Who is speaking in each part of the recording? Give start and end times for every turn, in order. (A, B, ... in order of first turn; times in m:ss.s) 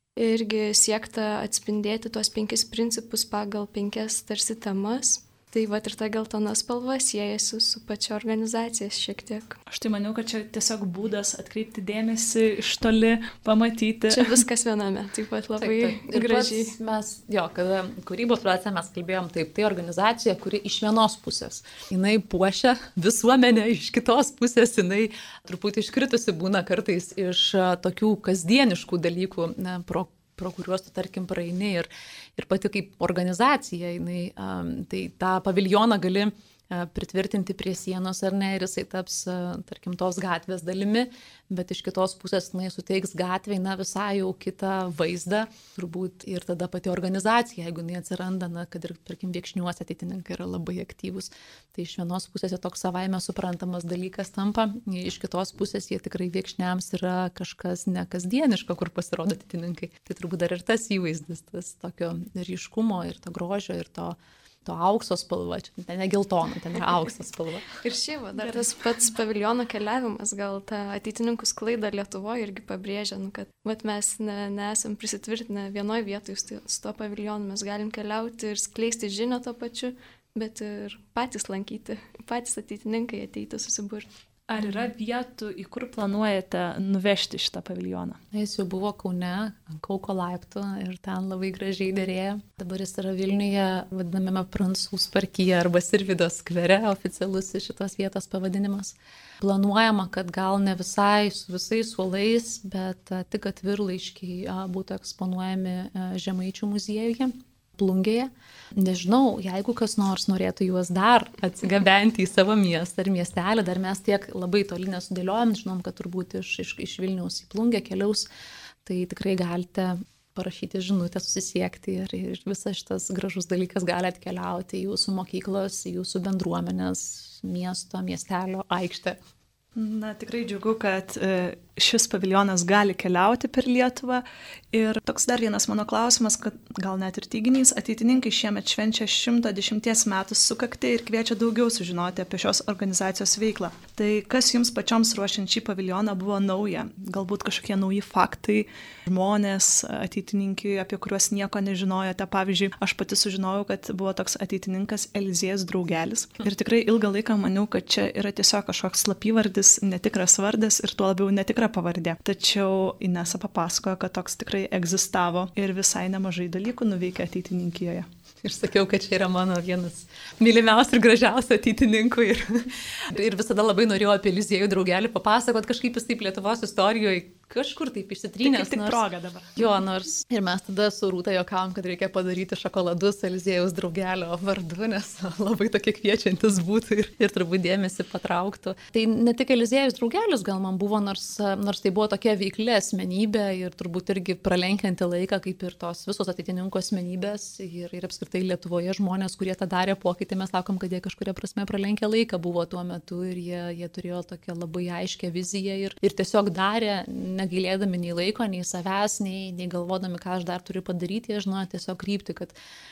0:00.2-0:09.6 A
0:09.7-0:14.4 B
0:14.1-0:16.8 A
0:15.6-1:07.8 C
1:07.8-1:24.1 A
1:24.5-1:28.2 B
1:28.3-1:58.3 C
1:58.8-2:09.2 C
2:09.8-2:48.1 B
2:48.4-2:59.0 C
2:58.4-2:59.6 B
2:59.6-3:32.6 C